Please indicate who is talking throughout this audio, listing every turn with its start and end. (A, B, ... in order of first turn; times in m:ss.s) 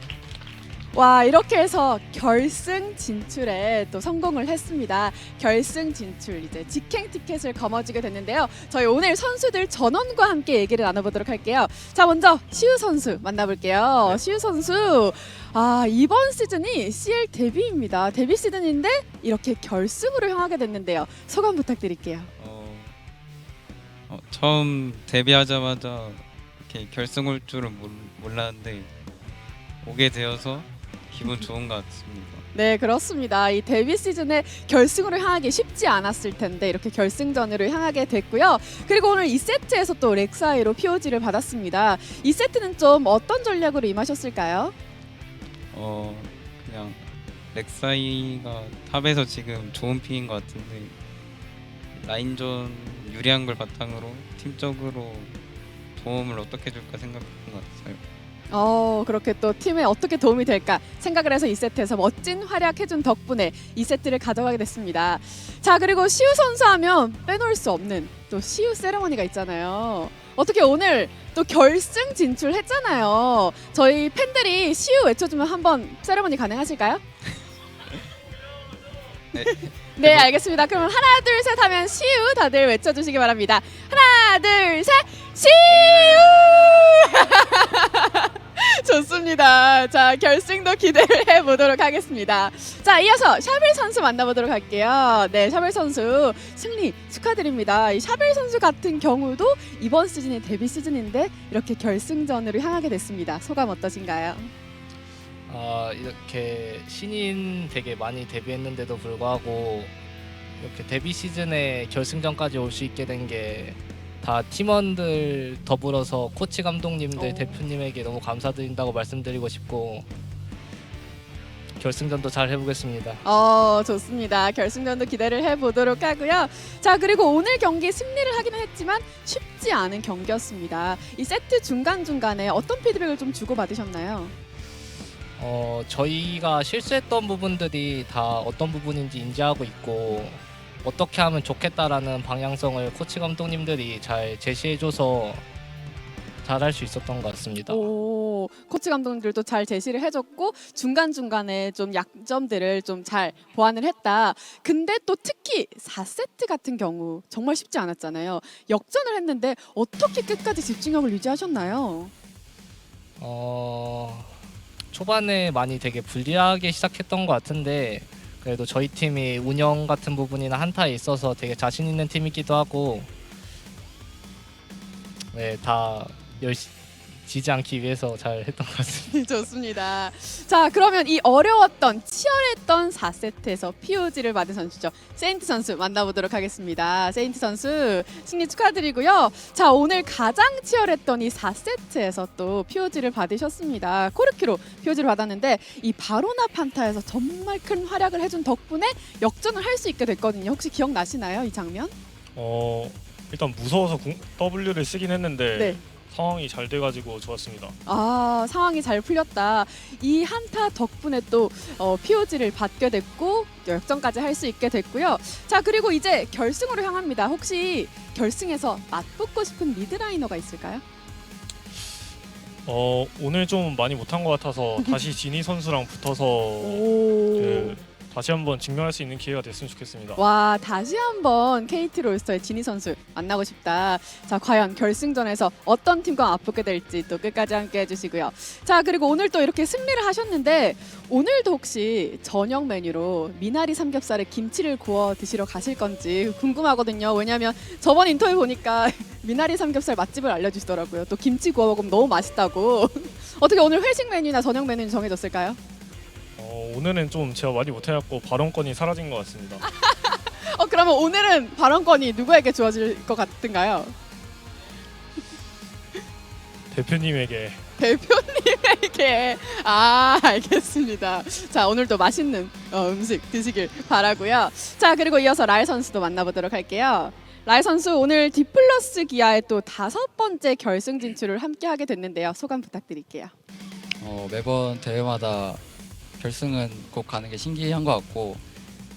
0:00.9-0:22.3 A
0:22.4-0:22.9 B
0:24.1-0:28.9 B
0:29.8-0:32.4 B
0:32.5-0:44.7 A
0:45.7-0:51.0 B
0:52.0-0:55.4 B
0:56.0-0:58.0 B
0:58.5-1:17.0 A
1:19.3-1:20.3 B
1:19.4-1:44.5 A
1:45.5-1:49.9 C
1:50.6-2:00.1 C
1:57.2-1:57.6 A
2:01.8-2:03.2 C
2:03.2-2:14.3 A
2:15.4-2:25.4 C
2:26.4-2:27.9 C
2:27.7-2:42.1 A
2:43.2-2:44.3 C
2:44.9-2:53.1 C
2:55.3-2:59.2 C
2:59.1-3:21.9 A
3:22.4-3:27.8 D
3:25.6-3:25.8 A
3:27.9-3:40.8 A
3:42.7-3:50.2 D
3:46.6-3:47.8 A
3:50.2-4:15.6 A
4:16.4-4:19.6 D
4:19.6-4:23.9 A
4:26.7-4:27.6 D
4:27.8-4:43.3 A
4:44.0-4:45.6 E
4:46.2-4:48.4 E